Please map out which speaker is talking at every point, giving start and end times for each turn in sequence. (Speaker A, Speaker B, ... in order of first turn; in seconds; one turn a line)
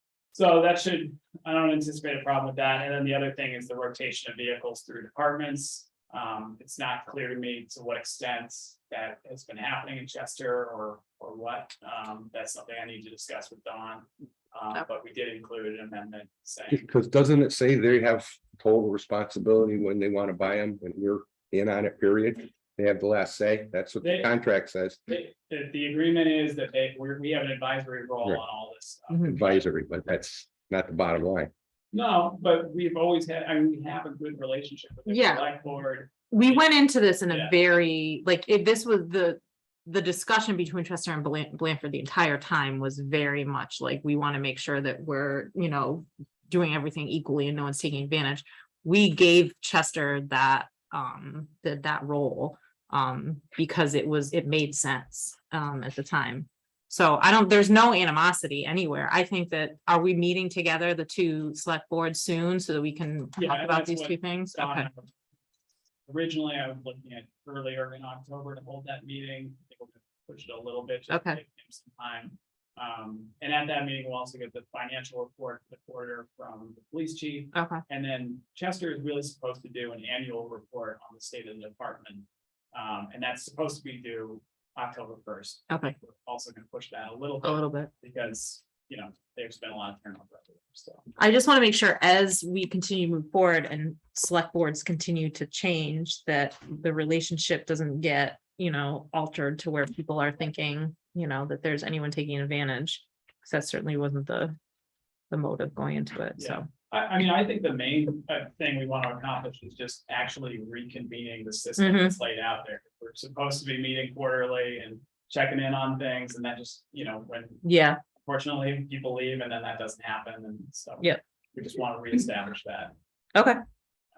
Speaker A: 0.3-16.9
Speaker B: 16.7-25.0
Speaker A: 24.0-24.3
Speaker A: 25.1-29.6
Speaker C: 29.1-29.4
Speaker B: 29.2-31.5
Speaker A: 31.9-37.5
Speaker C: 35.1-35.5
Speaker C: 36.3-64.9
Speaker A: 63.4-65.1
Speaker A: 66.1-91.1
Speaker C: 71.1-71.4
Speaker C: 77.5-77.8
Speaker C: 87.4-87.9
Speaker C: 91.2-104.5
Speaker C: 105.3-106.7
Speaker A: 106.4-117.6
Speaker C: 111.8-112.2
Speaker C: 117.6-118.0
Speaker A: 118.2-122.9